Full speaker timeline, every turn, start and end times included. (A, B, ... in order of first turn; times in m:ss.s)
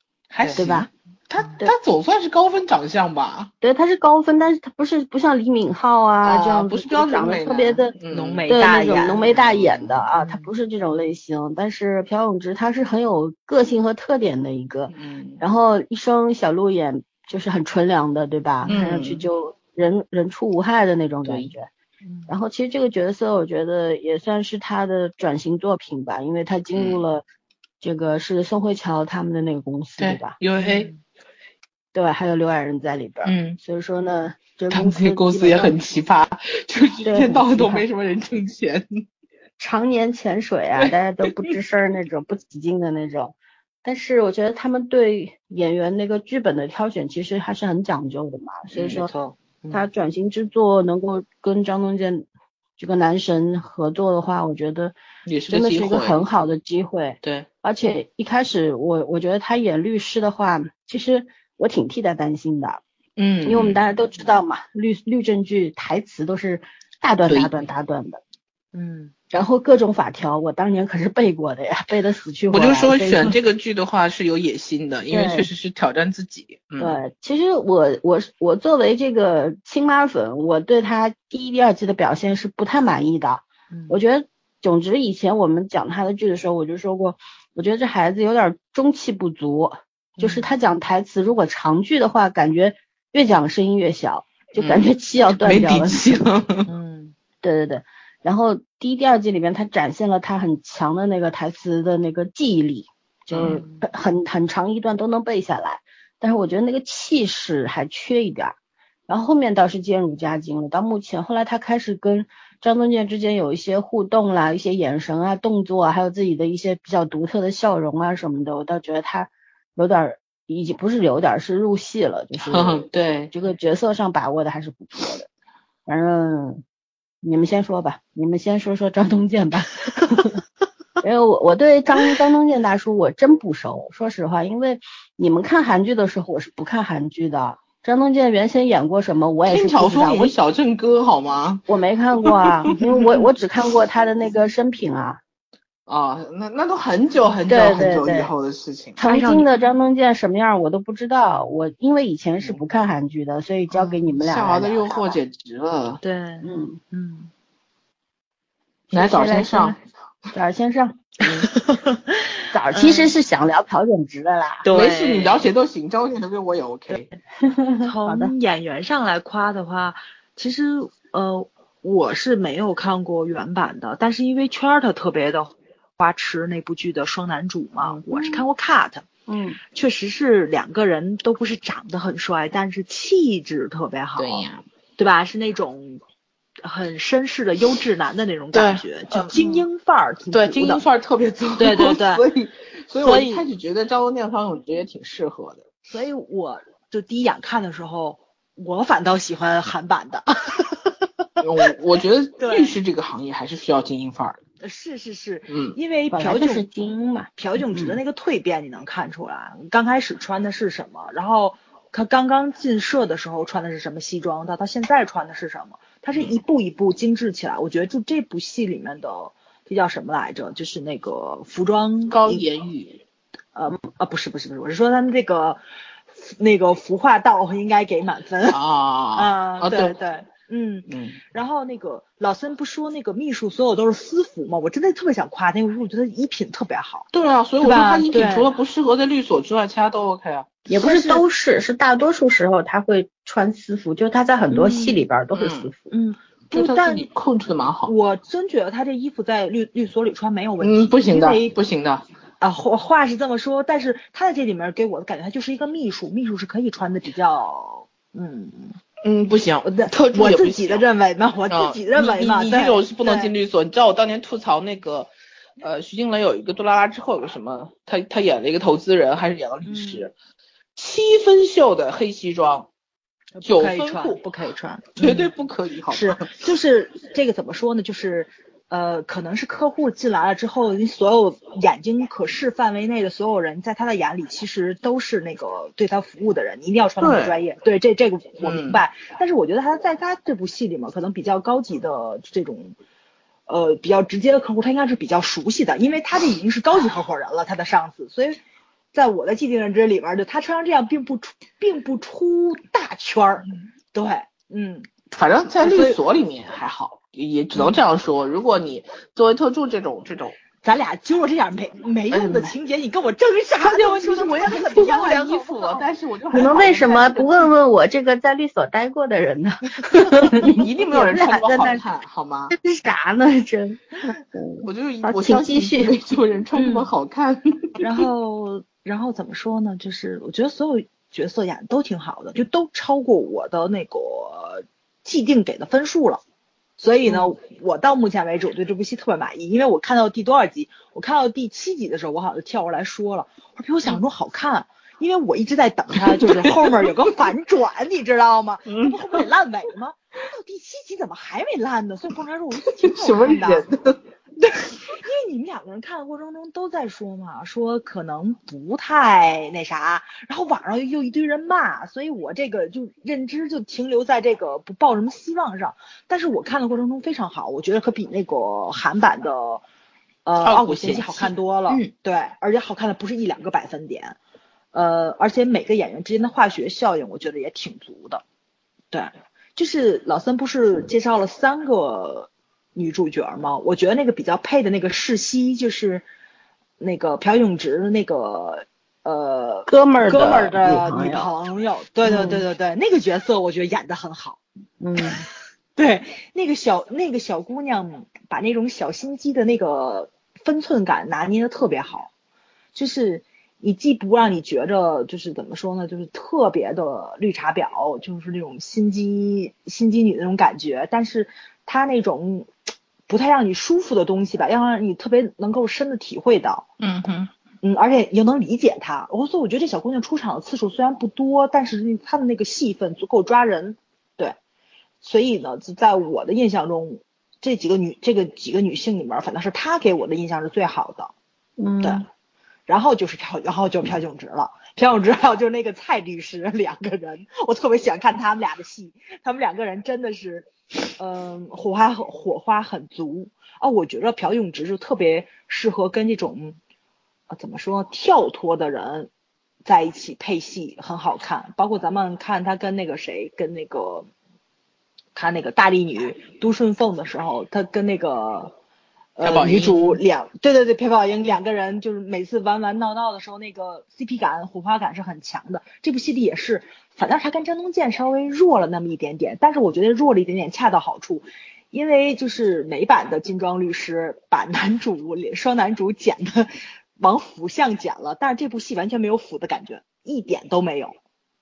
0:00.3-0:03.5 A
0:00.6-0:00.9 B
0:03.6-0:07.9 B
0:06.2-0:08.6 A
0:08.1-0:09.3 C
0:08.5-0:21.7 B
0:09.2-0:10.1 A
0:10.2-0:10.5 C
0:14.9-0:15.4 A
0:18.7-0:19.2 A
0:21.2-0:21.5 A
0:22.0-0:22.3 C
0:22.3-0:27.2 B
0:26.7-0:27.0 A
0:27.8-0:30.4 B
0:30.0-0:30.9 A
0:30.6-0:31.0 C
0:31.9-0:35.7 B
0:33.2-0:33.6 A
0:34.7-0:39.0 A
0:37.0-0:37.8 B
0:39.6-0:49.1 B
0:40.8-0:41.3 A
0:48.7-0:49.0 A
0:48.8-0:49.8 C
0:49.7-0:52.2 B
0:52.8-0:55.0 B
0:55.2-0:56.2 A
0:55.5-1:02.8 B
1:03.2-1:03.8 A
1:03.4-1:08.2 B
1:07.3-1:07.5 A
1:08.7-1:09.1 C
1:09.3-1:13.3 B
1:12.5-1:17.0 A
1:15.1-1:15.5 B
1:16.8-1:36.0 B
1:23.7-1:24.0 C
1:30.2-1:30.5 C
1:34.6-1:36.7 A
1:36.7-1:37.1 C
1:37.4-1:48.5 B
1:43.3-1:43.6 A
1:43.4-1:43.8 C
1:49.1-2:05.3 B
2:02.4-2:03.3 A
2:05.8-2:06.6 B
2:07.2-2:10.4 B
2:11.0-2:20.3 B
2:19.4-2:21.6 A
2:21.7-2:25.2 B
2:22.2-2:23.2 A
2:25.9-2:29.0 A
2:27.5-2:28.3 B
2:29.0-2:35.2 B
2:29.0-2:29.5 C
2:33.7-2:34.0 C
2:34.1-2:36.0 A
2:36.0-2:37.3 C
2:36.4-2:36.8 B
2:38.9-2:39.8 B
2:38.9-2:39.8 A
2:40.3-2:41.1 B
2:41.5-2:42.0 C
2:42.5-2:44.7 B
2:42.7-2:43.1 C
2:44.6-2:45.4 C
2:44.7-2:47.1 A
2:47.4-2:48.3 B
2:47.8-2:59.0 C
2:58.1-2:58.4 B
2:59.3-2:59.6 B
2:59.7-3:04.5 C
3:04.2-3:04.6 A
3:05.0-3:06.0 C
3:06.6-3:10.8 C
3:08.5-3:09.4 A
3:09.4-3:09.6 B
3:10.3-3:15.6 A
3:11.6-3:12.2 C
3:13.0-3:13.5 C
3:15.9-3:20.3 C
3:21.4-3:24.4 A
3:22.4-3:22.7 C
3:24.6-3:26.6 C
3:25.5-3:25.8 A
3:26.1-3:28.0 B
3:27.4-3:42.4 C
3:42.1-3:43.0 A
3:43.5-3:45.6 C
3:46.2-3:48.6 C
3:48.5-3:50.0 A
3:49.1-3:57.1 C
3:50.9-3:51.2 A
3:57.1-4:00.6 A
3:57.6-3:58.5 C
4:00.7-4:05.9 B
4:00.7-4:01.2 C
4:04.5-4:05.0 C
4:05.3-4:05.7 A
4:05.9-4:07.1 C
4:06.5-4:07.9 A
4:07.8-4:11.5 C
4:10.6-4:12.0 A
4:12.4-4:18.8 C
4:19.0-4:20.8 A
4:19.6-4:23.3 C
4:21.5-4:30.1 A
4:29.6-4:30.1 C
4:30.8-4:32.7 A
4:33.3-4:35.3 C
4:33.4-4:34.2 A
4:35.0-4:36.3 A
4:35.9-4:52.7 C
4:47.0-4:47.4 A
4:48.4-4:48.8 A
4:53.5-4:58.4 C
4:58.9-5:04.9 C
5:05.1-5:10.4 A
5:05.6-5:06.0 C
5:10.6-5:15.9 C
5:12.1-5:12.5 A
5:13.5-5:17.3 A
5:16.3-5:21.8 B
5:20.2-5:22.5 A
5:22.5-5:25.9 B
5:24.6-5:27.9 A
5:26.5-5:26.9 C
5:27.8-5:36.2 C
5:36.8-5:53.7 C
5:46.1-5:46.9 A
5:48.8-5:49.2 A
5:52.8-5:54.0 A
5:54.9-6:09.6 C
6:10.2-6:14.2 C
6:10.4-6:11.9 A
6:14.7-6:18.2 C
6:18.9-6:26.0 C
6:26.8-6:34.4 C
6:29.7-6:31.3 B
6:32.0-6:32.4 B
6:34.8-6:35.2 B
6:35.8-6:42.1 C
6:42.7-6:52.5 C
6:53.1-6:56.7 C
6:56.8-6:57.3 A
6:57.6-7:04.4 C
7:05.0-7:11.1 C
7:11.6-7:12.0 B
7:12.7-7:26.6 C
7:27.3-7:29.1 C
7:29.6-7:34.1 C
7:35.1-7:38.5 C
7:39.2-8:00.9 C
7:39.2-7:40.0 A